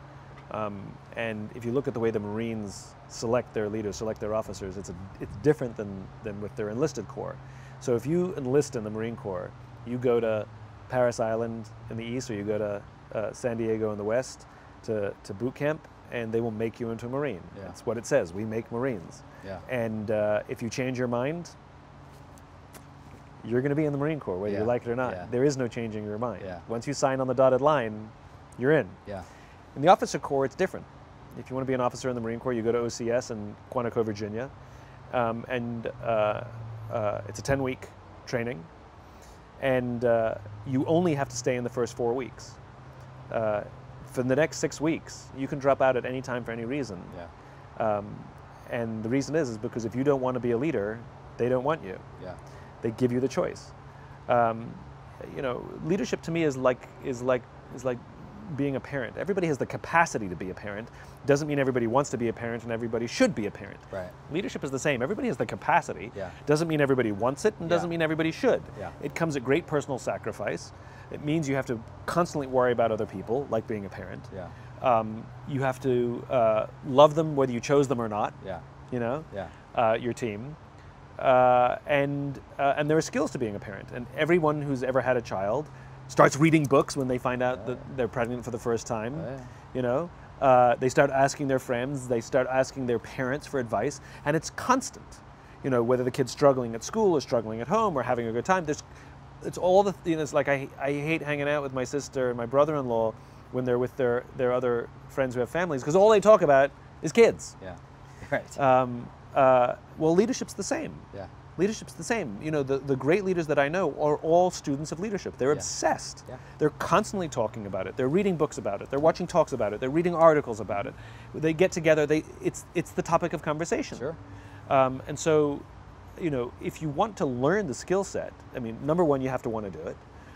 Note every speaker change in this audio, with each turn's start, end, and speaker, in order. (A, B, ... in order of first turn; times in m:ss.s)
0:00.5-0:21.6 A
0:23.4-0:29.0 A
0:24.5-0:25.3 B
0:29.8-0:34.5 A
0:35.1-0:38.7 A
0:39.6-0:42.6 A
0:43.3-0:47.2 A
0:47.8-0:52.0 A
0:52.8-0:53.7 A
0:54.3-1:18.4 A
1:07.6-1:07.9 B
1:18.9-1:20.6 A
1:21.2-1:38.8 A
1:29.2-1:29.5 B
1:39.4-1:47.6 A
1:47.6-1:48.6 B
1:48.6-2:04.1 A
2:04.7-2:05.6 A
2:06.2-2:10.0 A